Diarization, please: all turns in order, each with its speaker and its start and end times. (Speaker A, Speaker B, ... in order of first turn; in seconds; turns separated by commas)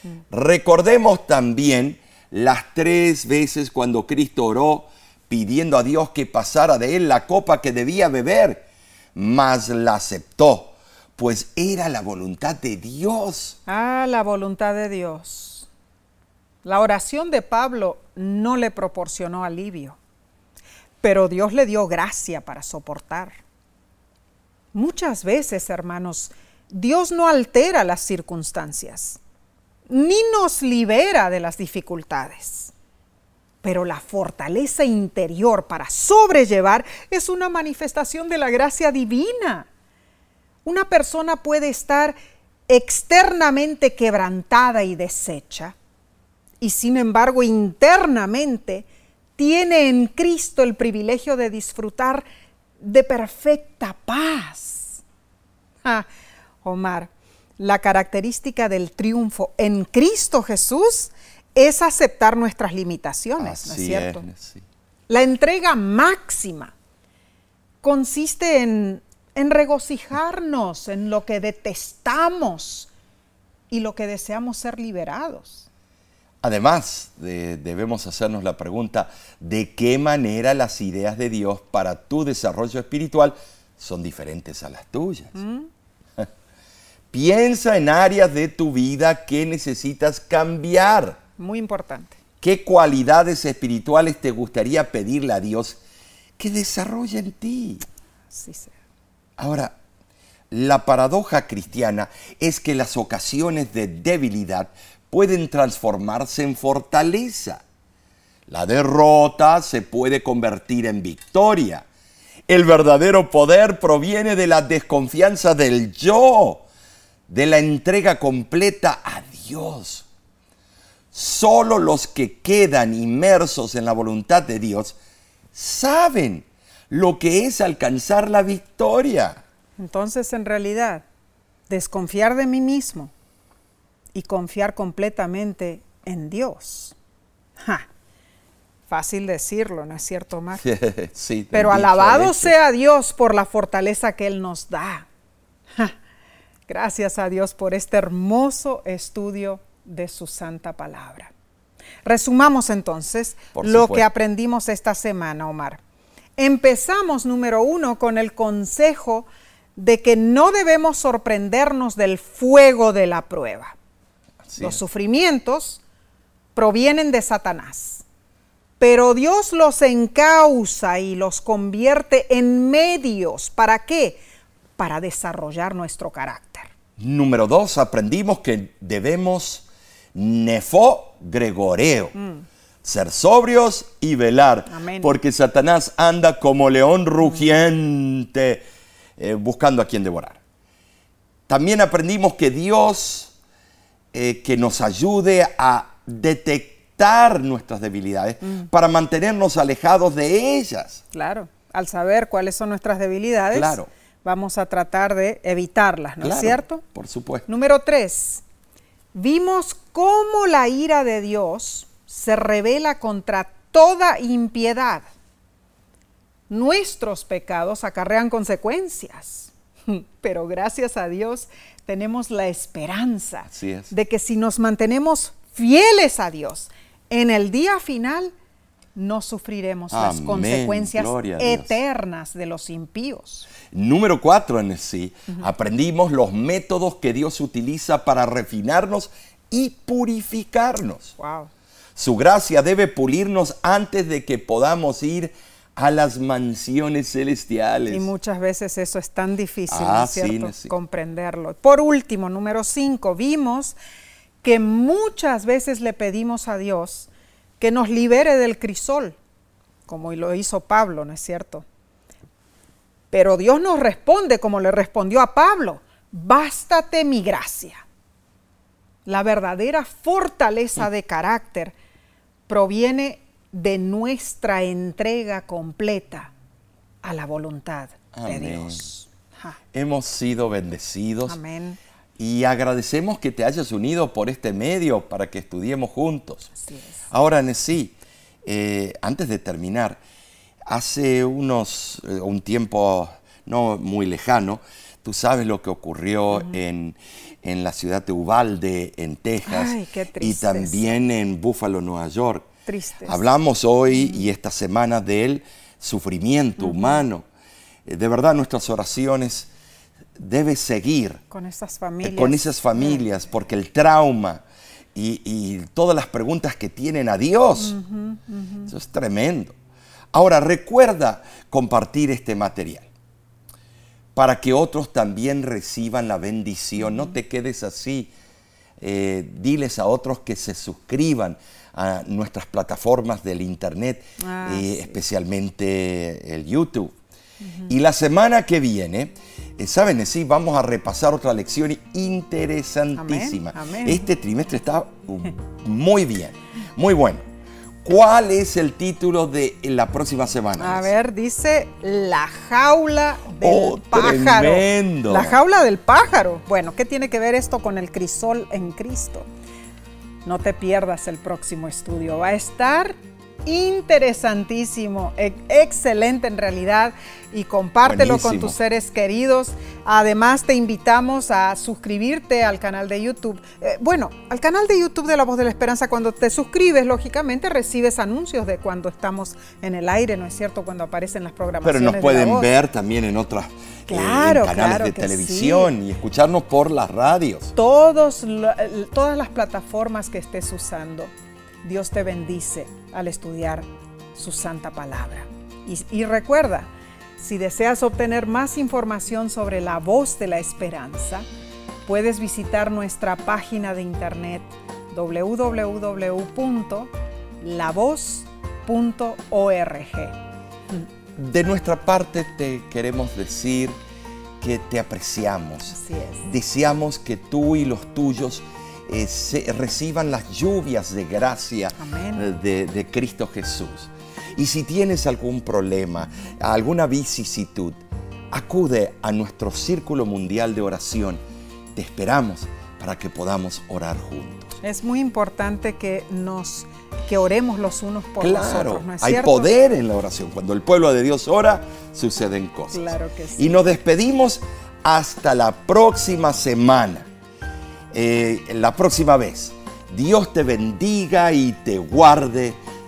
Speaker A: 0.3-13.6, Speaker B: 13.7-15.7, Speaker B: 16.6-20.0, Speaker B: 21.0-23.4, Speaker B: 24.7-29.2, Speaker B: 29.9-32.7, Speaker B: 33.6-39.7, Speaker B: 40.6-42.1, Speaker B: 42.7-45.7, Speaker B: 46.6-48.9, Speaker B: 49.4-52.2, Speaker B: 52.8-55.0, Speaker B: 56.6-64.2, Speaker A: 63.4-64.6, Speaker B: 65.1-66.7, Speaker B: 67.8-72.9, Speaker B: 73.7-75.7, Speaker A: 76.4-85.4, Speaker B: 85.3-85.7, Speaker A: 87.1-91.2, Speaker B: 91.4-92.2, Speaker A: 92.4-95.8, Speaker A: 96.4-97.8, Speaker B: 98.3-98.7, Speaker A: 99.4-99.8, Speaker A: 100.5-107.6, Speaker A: 108.5-111.8, Speaker A: 112.5-116.6, Speaker A: 117.3-120.1, Speaker A: 121.1-125.0, Speaker A: 125.5-129.4, Speaker B: 129.8-131.0, Speaker B: 131.7-133.1, Speaker B: 134.1-136.9, Speaker B: 137.6-137.9, Speaker B: 138.9-140.6, Speaker A: 140.6-142.5, Speaker B: 141.5-145.1, Speaker B: 146.7-151.3, Speaker B: 152.0-155.8, Speaker A: 153.5-154.1, Speaker B: 156.4-163.7, Speaker A: 164.4-164.8, Speaker B: 164.6-165.8, Speaker B: 166.5-168.0, Speaker B: 168.8-174.2, Speaker B: 174.8-176.7, Speaker A: 177.0-182.1, Speaker B: 182.2-182.4, Speaker A: 182.8-188.6, Speaker B: 184.7-185.1, Speaker A: 189.2-190.4, Speaker A: 191.5-193.3, Speaker A: 194.1-201.0, Speaker B: 201.1-206.8, Speaker A: 203.5-203.9, Speaker A: 206.2-207.4, Speaker B: 207.5-208.4, Speaker B: 209.1-215.1, Speaker B: 216.5-228.3, Speaker A: 223.5-223.9, Speaker B: 228.9-233.5, Speaker A: 229.9-231.8, Speaker A: 233.7-241.2, Speaker B: 241.2-241.5, Speaker A: 241.9-248.1, Speaker B: 247.9-253.7, Speaker A: 249.7-250.7, Speaker B: 254.4-257.1, Speaker B: 257.6-259.1, Speaker B: 259.9-261.6, Speaker B: 263.1-267.8, Speaker B: 269.1-271.7, Speaker B: 272.5-276.3, Speaker B: 277.0-279.6, Speaker A: 278.1-278.9, Speaker A: 279.7-281.4, Speaker B: 281.3-281.8, Speaker A: 282.2-286.5, Speaker B: 286.6-287.1, Speaker A: 287.1-290.0, Speaker A: 290.7-302.5, Speaker B: 299.4-301.0, Speaker B: 302.6-303.2, Speaker A: 303.0-307.2, Speaker B: 303.9-304.2, Speaker B: 306.6-307.0, Speaker A: 307.9-309.5, Speaker A: 310.2-311.2, Speaker B: 311.3-313.0, Speaker A: 312.0-314.4, Speaker A: 314.9-317.8, Speaker B: 317.6-318.7, Speaker A: 318.7-319.5, Speaker A: 320.1-322.9, Speaker A: 324.1-328.1, Speaker B: 326.8-327.1, Speaker A: 328.8-336.9, Speaker B: 334.2-335.0, Speaker B: 337.4-337.7, Speaker A: 337.7-347.2, Speaker B: 342.9-344.1, Speaker A: 347.8-350.9, Speaker B: 350.6-359.2, Speaker A: 353.4-355.4, Speaker B: 360.2-382.5, Speaker A: 367.8-368.5, Speaker A: 381.6-387.5, Speaker B: 383.9-385.7, Speaker B: 387.5-391.1, Speaker B: 391.6-401.2, Speaker B: 401.9-410.1, Speaker A: 411.2-413.8, Speaker A: 414.4-427.8, Speaker B: 415.7-416.3, Speaker B: 421.8-422.3, Speaker A: 428.3-431.2, Speaker A: 431.7-434.5, Speaker B: 434.6-439.5, Speaker A: 438.2-447.1, Speaker B: 442.7-443.5, Speaker A: 447.9-452.6